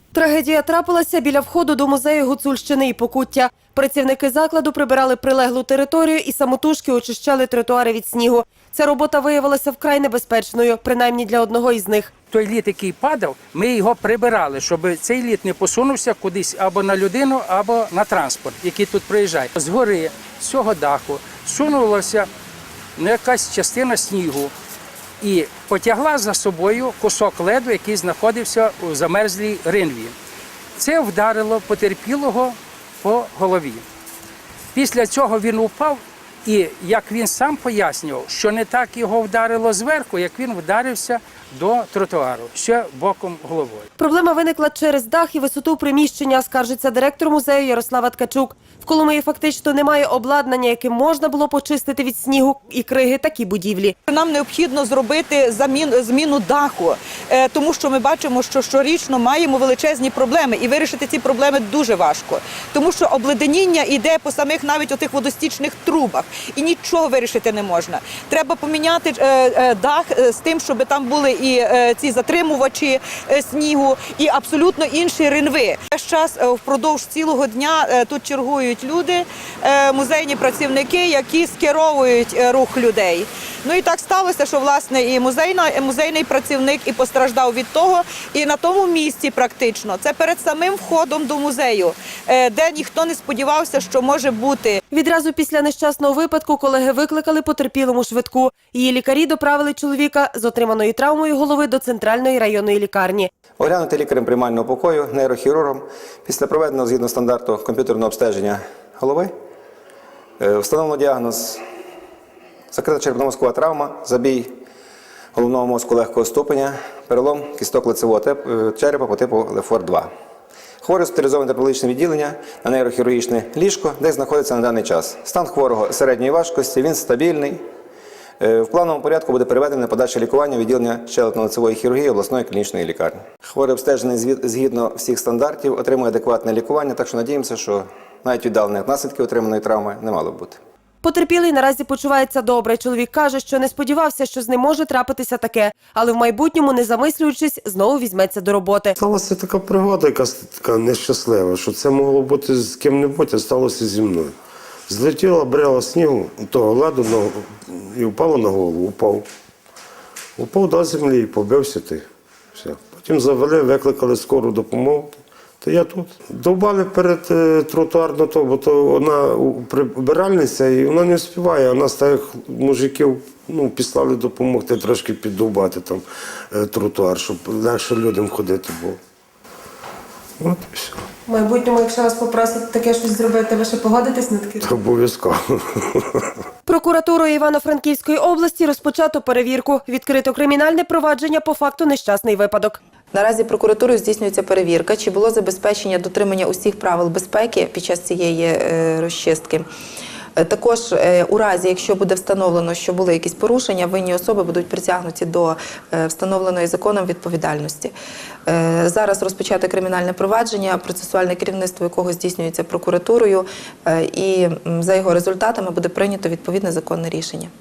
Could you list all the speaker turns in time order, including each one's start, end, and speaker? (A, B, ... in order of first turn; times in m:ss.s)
0:00.1-0:12.1 A
0:12.3-0:22.3 B
0:23.0-0:24.5 B
0:25.2-0:30.1 B
0:30.8-0:33.8 B
0:34.7-0:43.8 B
0:44.0-0:54.0 A
0:54.1-1:34.6 C
1:34.9-1:43.3 A
1:43.6-1:49.3 D
1:50.4-1:51.6 D
1:52.7-1:54.5 D
1:55.3-2:00.1 D
2:00.8-2:07.6 D
2:08.4-2:20.6 D
2:21.0-2:29.0 A
2:29.0-2:34.3 E
2:34.9-2:39.2 E
2:40.4-2:59.0 E
3:00.4-3:01.0 E
3:01.2-3:04.7 A
3:04.6-3:06.2 E
3:06.6-3:12.8 A
3:13.1-3:19.6 F
3:20.4-3:27.9 F
3:28.4-3:37.5 F